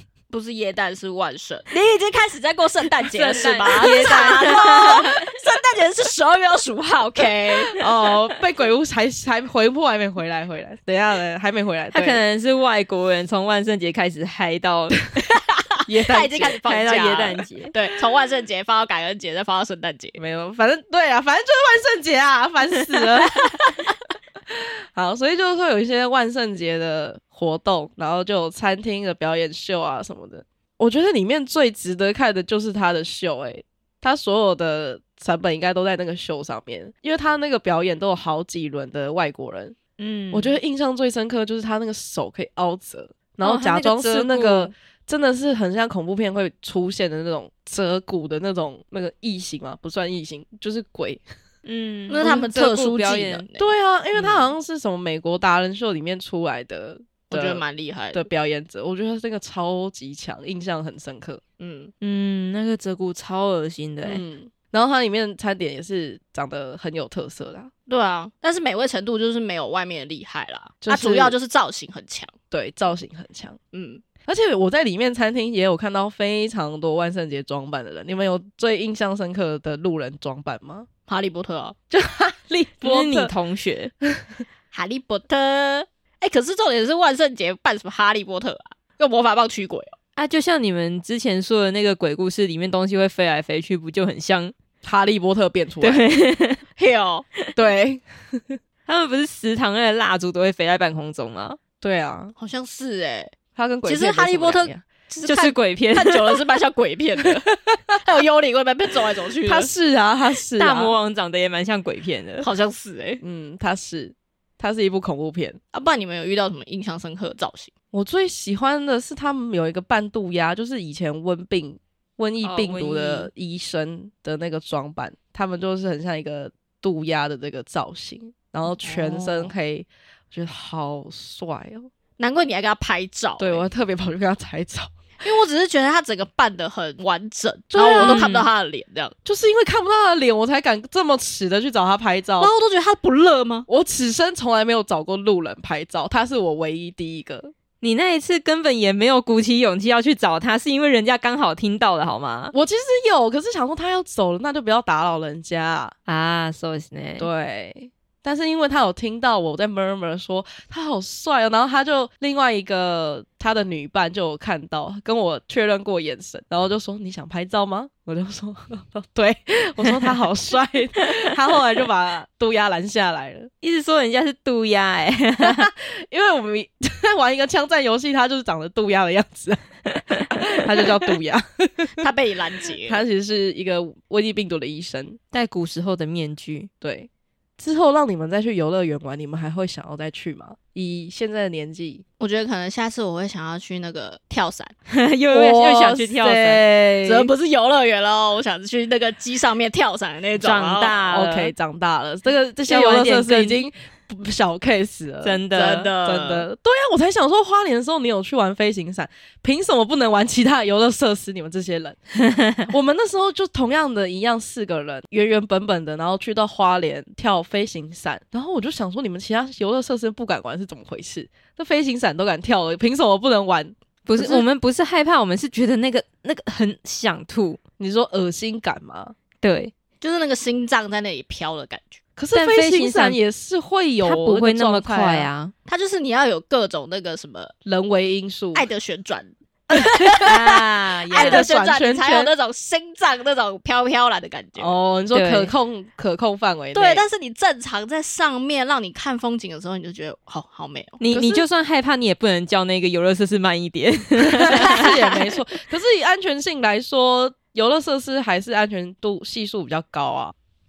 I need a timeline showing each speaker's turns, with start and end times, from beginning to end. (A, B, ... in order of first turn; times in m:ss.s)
0:00.3-0:07.8 A
0:03.0-0:05.2 B
0:07.8-0:12.2 C
0:11.9-0:15.0 B
0:15.9-0:16.6 C
0:15.9-0:20.2 A
0:16.6-0:17.7 B
0:20.2-0:23.6 C
0:24.9-0:39.8 C
0:40.0-0:40.6 B
0:40.3-0:51.2 C
0:43.4-0:44.7 B
0:51.6-0:53.4 B
0:52.1-0:54.5 A
0:53.6-1:01.4 C
0:57.3-0:58.3 A
1:01.6-1:01.9 A
1:02.0-1:04.2 B
1:04.0-1:07.7 C
1:07.9-1:12.3 A
1:10.8-1:11.4 C
1:12.5-1:13.6 C
1:13.7-1:14.0 A
1:14.3-1:20.9 C
1:21.1-1:21.8 A
1:21.9-1:23.3 C
1:22.8-1:23.9 B
1:24.7-1:30.0 A
1:30.2-1:34.5 B
1:34.8-1:36.0 C
1:35.8-1:36.6 B
1:36.8-1:37.3 A
1:37.6-1:38.6 C
1:38.9-1:41.6 B
1:41.8-1:42.3 C
1:42.4-1:49.7 A
1:43.6-1:44.8 C
1:45.3-1:46.4 B
1:49.4-1:51.0 C
1:50.6-1:52.5 B
1:52.4-1:53.2 A
1:53.2-1:55.6 C
1:55.7-1:57.7 A
1:57.9-2:11.9 C
2:02.4-2:03.3 B
2:08.7-2:09.5 A
2:12.2-2:13.6 A
2:13.4-2:14.9 C
2:15.2-2:19.2 A
2:17.7-2:18.3 C
2:18.0-2:18.5 B
2:19.2-2:22.5 C
2:22.4-2:23.7 A
2:23.7-2:27.5 C
2:27.8-2:32.5 B
2:32.5-2:36.0 C
2:36.1-2:37.3 B
2:37.2-2:53.5 C
2:53.6-2:55.7 B
2:55.4-2:59.7 C
3:00.2-3:02.1 C
3:02.0-3:03.0 A
3:02.9-3:05.2 C
3:05.3-3:06.7 B
3:06.8-3:12.0 C
3:12.2-3:14.7 A
3:14.9-3:16.6 B
3:15.3-3:17.3 C
3:17.1-3:21.0 A
3:20.4-3:21.5 B
3:21.1-3:25.4 C
3:22.6-3:23.6 B
3:25.2-3:25.9 B
3:25.5-3:26.5 A
3:26.0-3:32.0 C
3:32.3-3:32.6 B
3:32.6-3:44.4 C
3:44.1-3:47.6 B
3:47.8-3:49.2 C
3:49.4-3:49.7 B
3:50.0-3:52.0 A
3:52.2-3:55.3 C
3:52.3-3:53.2 B
3:54.0-3:55.5 B
3:55.7-3:57.5 A
3:57.6-3:58.7 C
3:58.6-4:00.4 A
3:59.7-4:02.3 C
4:00.2-4:01.5 B
4:01.1-4:04.8 A
4:04.6-4:07.0 C
4:05.1-4:05.5 B
4:06.7-4:11.0 A
4:11.0-4:14.9 B
4:11.1-4:11.4 C
4:14.2-4:20.3 C